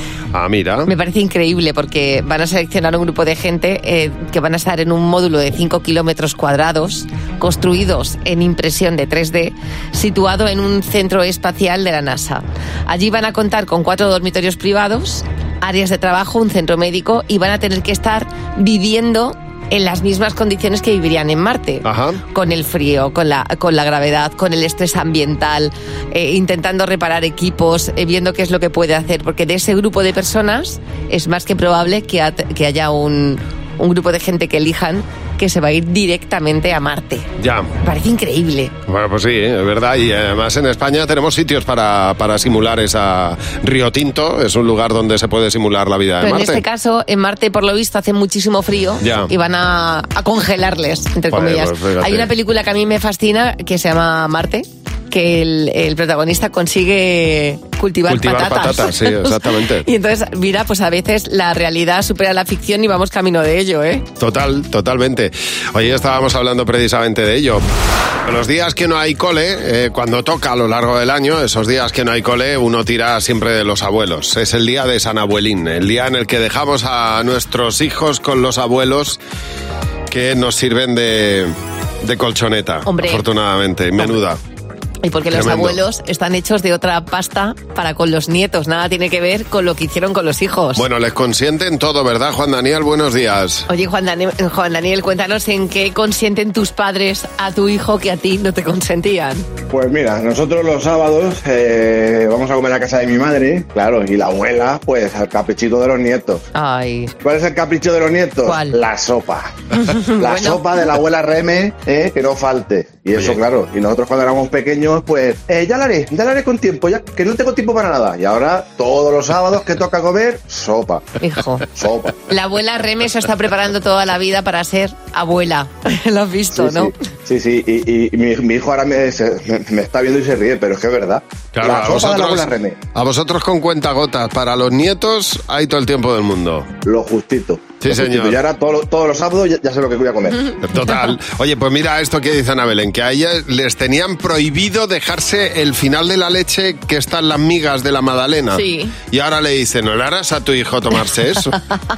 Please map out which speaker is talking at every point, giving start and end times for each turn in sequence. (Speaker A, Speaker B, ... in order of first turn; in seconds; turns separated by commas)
Speaker A: 0.3-0.9, Speaker B: 0.9-37.3, Speaker A: 21.8-22.2, Speaker A: 37.4-37.7, Speaker B: 37.8-38.7, Speaker A: 38.9-46.6, Speaker B: 46.2-64.1, Speaker A: 49.0-49.3, Speaker A: 51.3-52.3, Speaker A: 58.1-59.9, Speaker A: 64.2-67.7, Speaker A: 68.2-79.2, Speaker A: 80.1-84.4, Speaker B: 82.9-83.2, Speaker B: 85.0-90.8, Speaker A: 85.3-85.8, Speaker A: 90.8-93.7, Speaker B: 93.7-99.5, Speaker C: 99.7-106.4, Speaker B: 106.5-107.1, Speaker C: 107.2-109.5, Speaker B: 108.5-108.8, Speaker B: 109.8-110.6, Speaker C: 110.2-121.0, Speaker A: 113.2-113.4, Speaker B: 121.2-121.7, Speaker C: 121.7-122.1, Speaker B: 122.3-126.9, Speaker C: 126.5-132.8, Speaker A: 131.5-136.7, Speaker C: 136.8-140.5, Speaker A: 137.8-138.4, Speaker B: 140.5-140.9, Speaker A: 140.6-151.6, Speaker B: 148.5-148.9